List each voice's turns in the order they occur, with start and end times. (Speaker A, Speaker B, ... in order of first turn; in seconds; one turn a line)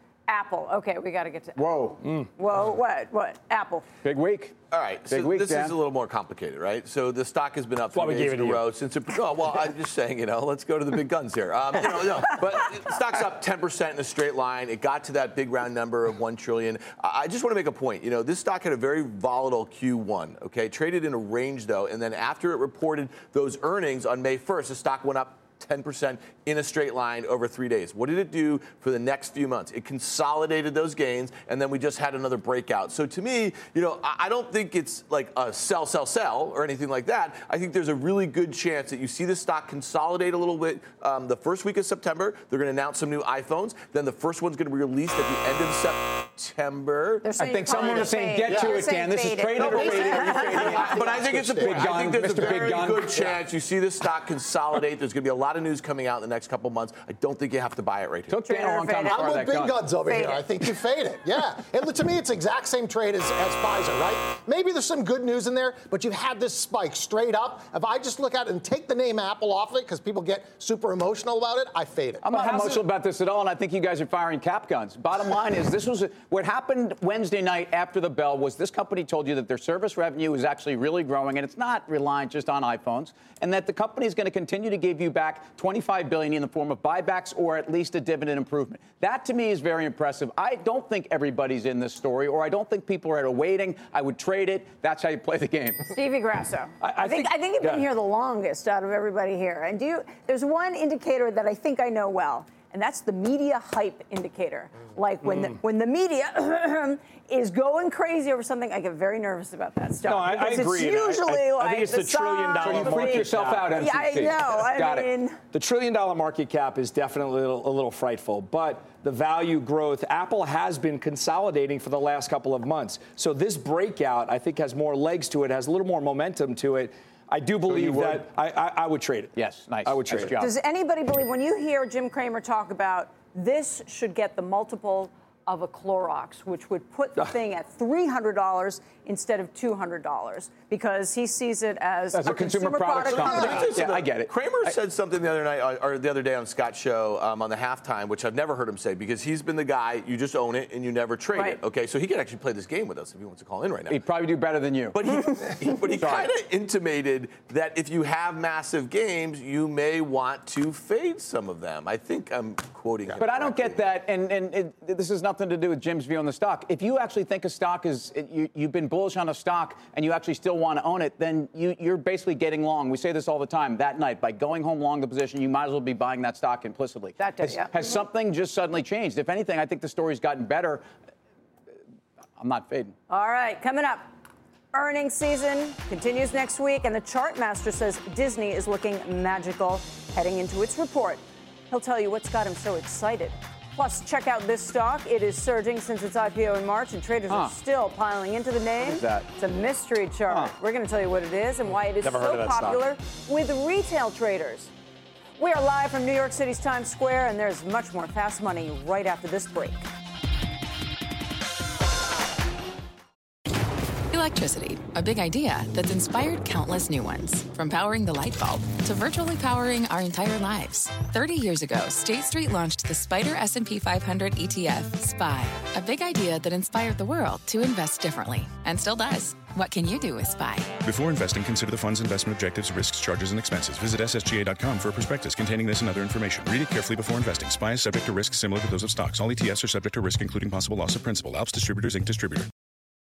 Speaker A: 0.3-1.6
Speaker B: 1.6-2.0
Speaker C: 2.0-2.3
Speaker A: 2.4-3.9
Speaker B: 4.0-4.5
Speaker D: 4.7-48.0
Speaker B: 5.1-5.8
Speaker C: 7.9-8.7
Speaker A: 47.2-50.9
Speaker B: 47.4-53.3
Speaker E: 48.5-48.8
Speaker E: 49.6-52.8
Speaker D: 49.6-58.4
Speaker B: 58.3-59.8
Speaker A: 58.5-59.3
Speaker E: 59.1-72.2
Speaker A: 60.0-60.4
Speaker B: 72.2-95.9
Speaker C: 72.3-72.8
Speaker A: 95.9-115.4
Speaker C: 96.8-97.9
Speaker C: 110.0-113.8
Speaker B: 112.6-115.1
Speaker C: 115.5-130.4
Speaker B: 127.7-128.3
Speaker B: 129.3-130.5
Speaker A: 130.4-143.8
Speaker B: 142.1-144.7
Speaker D: 143.1-154.0
Speaker A: 151.3-151.6
Speaker B: 153.9-156.3
Speaker D: 154.9-163.8
Speaker B: 163.2-180.8
Speaker A: 177.2-178.0
Speaker B: 182.4-183.0
Speaker A: 183.1-184.1
Speaker A: 184.7-204.7
Speaker B: 197.3-197.6
Speaker B: 198.8-199.3
Speaker B: 200.3-200.5
Speaker C: 202.0-202.8
Speaker A: 205.4-209.9
Speaker F: 214.1-230.8
Speaker G: 230.8-242.5